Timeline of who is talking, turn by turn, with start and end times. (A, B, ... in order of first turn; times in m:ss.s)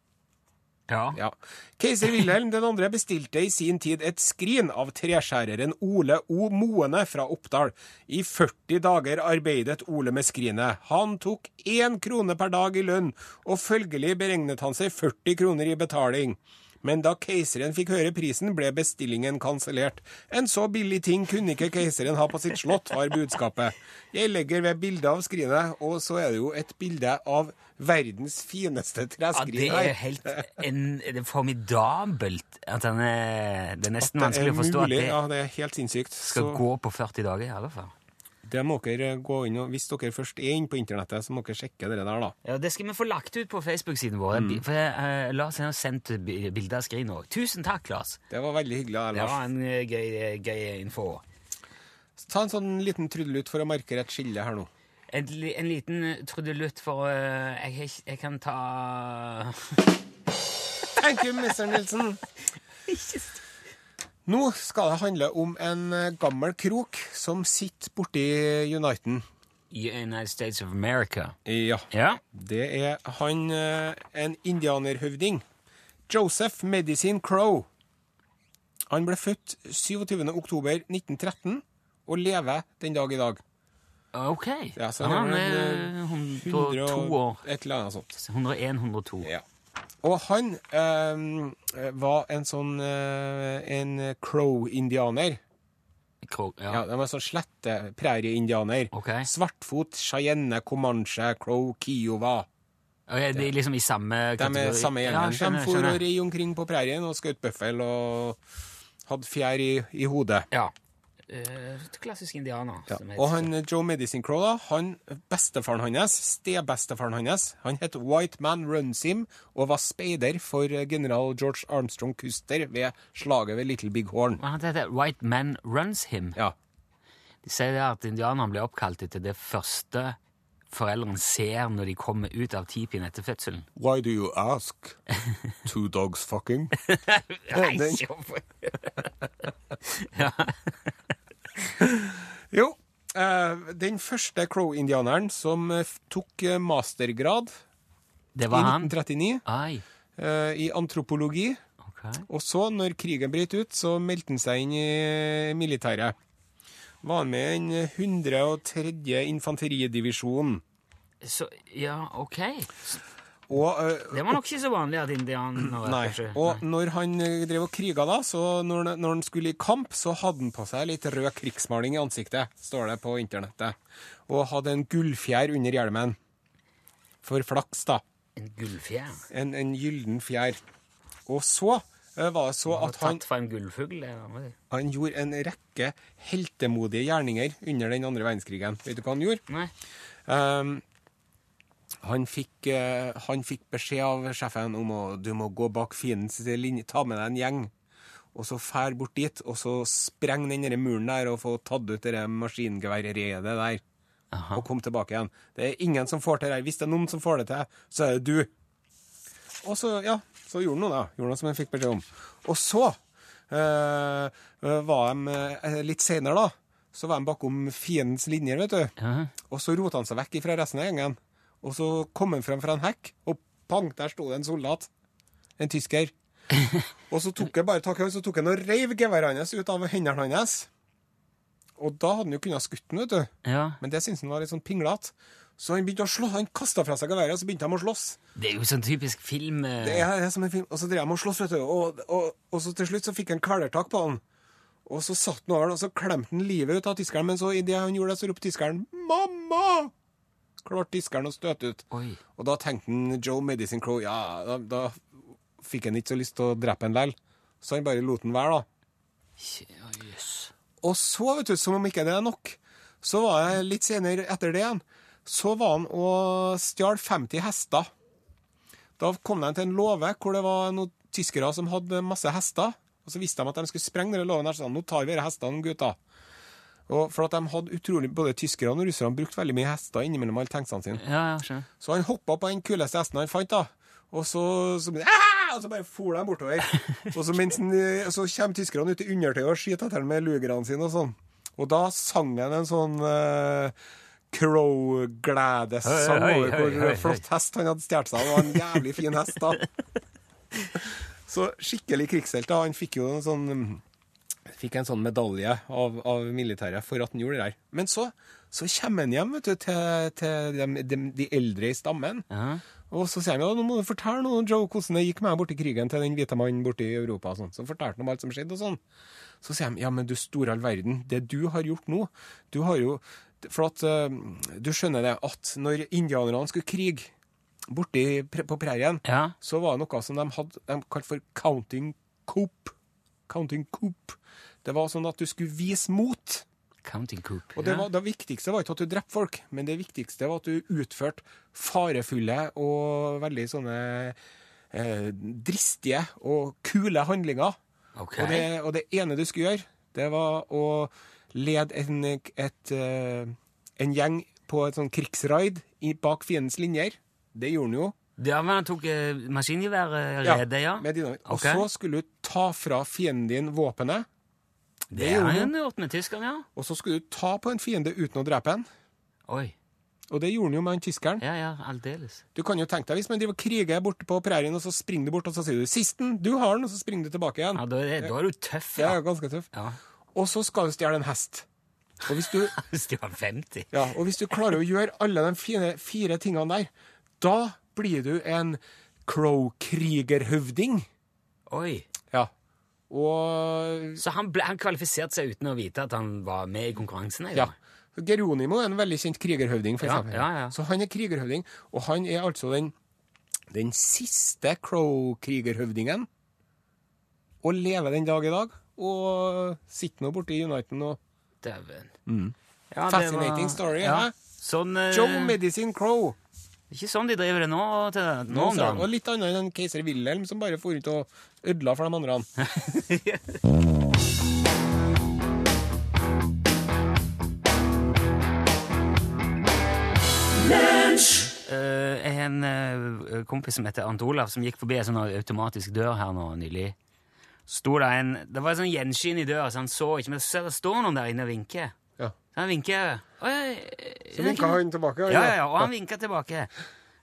0:00.9-0:01.2 A
0:01.1-0:30.5 B
0:29.3-0:35.2 A
0:34.0-0:36.6 B
0:36.2-0:37.9 A
0:38.4-0:42.3 B
0:42.4-0:48.2 A
0:44.3-0:44.6 B
0:48.3-0:49.4 B
0:49.1-0:51.2 A
0:52.2-0:54.7 B
0:55.1-0:59.8 A
1:01.0-1:02.2 B
1:02.9-1:03.4 A
1:04.2-1:09.2 B
1:09.7-1:11.4 A
1:11.4-1:15.4 B
1:11.9-1:12.2 A
1:16.1-1:17.7 B
1:18.9-1:23.4 B
1:24.1-1:27.4 A
1:24.8-1:28.1 B
1:28.1-1:29.3 A
1:30.0-1:35.4 B
1:36.2-1:36.8 A
1:36.7-1:42.5 B
1:38.9-1:39.3 A
1:43.1-1:46.0 A
1:44.4-1:48.4 B
1:49.0-1:50.5 B
1:51.3-1:53.5 A
1:52.9-2:04.4 B
2:04.4-2:06.4 A
2:07.4-2:10.2 A
2:10.7-2:13.7 A
2:13.8-2:15.0 B
2:15.6-2:16.8 B
2:16.8-2:19.1 A
2:17.5-2:18.0 B
2:19.8-2:20.9 A
2:21.8-2:27.6 B
2:28.3-2:29.8 A
2:28.5-2:29.4 B
2:30.2-2:31.6 B
2:31.8-2:32.3 A
2:32.3-2:36.2 B
2:37.0-2:40.6 B
2:41.2-2:43.0 A
2:43.5-2:44.4 B
2:44.1-2:46.6 A
2:45.6-2:53.8 B
2:54.3-2:56.2 B
2:57.2-2:58.0 B
2:58.4-2:59.2 A
2:59.3-3:00.6 B
3:01.3-3:03.2 B
3:02.7-3:04.6 A
3:04.7-3:09.4 B
3:10.3-3:10.8 B
3:12.0-3:17.7 B
3:18.3-3:23.8 B
3:24.3-3:24.6 A
3:24.5-3:28.5 B
3:29.6-3:33.0 B
3:33.5-3:38.9 B
3:39.0-3:39.3 A
3:39.4-3:44.9 B
3:45.6-3:46.1 B
3:47.1-3:50.7 B
3:51.8-3:58.2 B
3:53.4-3:53.8 A
3:58.4-4:00.1 A
3:59.8-4:04.2 B
4:04.8-4:09.9 B
4:10.6-4:15.1 B
4:11.9-4:12.2 A
4:15.6-4:18.6 B
4:19.4-4:20.5 A
4:20.8-4:27.9 B
4:29.0-4:36.0 B
4:36.9-4:41.0 B
4:41.0-4:41.7 A
4:41.8-4:53.7 B
4:54.3-4:59.6 B
4:55.8-4:57.2 A
5:00.7-5:03.8 B
5:04.5-5:12.2 B
5:12.3-5:12.6 A
5:12.9-5:18.8 B
5:19.4-5:27.1 B
5:27.7-5:32.7 B
5:29.0-5:29.3 A
5:33.3-5:36.4 B
5:36.8-5:37.9 A
5:37.5-5:44.2 B
5:44.7-5:47.6 B
5:48.0-5:48.5 A
5:48.2-5:57.9 B
5:58.2-6:01.7 A
6:00.2-6:04.1 B
6:04.9-6:06.4 A
6:04.9-6:05.5 B
6:06.6-6:08.6 B
6:09.3-6:09.5 A
6:10.1-6:11.2 B
6:11.2-6:12.2 A
6:12.3-6:18.1 B
6:17.5-6:19.0 A
6:18.8-6:19.5 B
6:19.5-6:19.8 A
6:20.1-6:21.4 B
6:22.0-6:22.6 B
6:22.5-6:23.8 A
6:23.7-6:30.9 B
6:31.5-6:31.9 A
6:32.9-6:34.0 B
6:34.0-6:37.5 A
6:37.3-6:42.7 B
6:39.8-6:40.6 A
6:43.5-6:46.1 B
6:47.4-6:51.0 B
6:51.4-6:51.9 A
6:52.1-6:52.3 B
6:52.7-6:55.4 A
6:52.8-6:54.1 B
6:54.9-6:56.2 B
6:56.7-6:58.9 A
6:58.3-7:02.3 B
7:02.4-7:03.4 A
7:11.1-7:16.8 A
7:17.5-7:21.8 A
7:22.3-7:26.5 A
7:24.1-7:25.7 B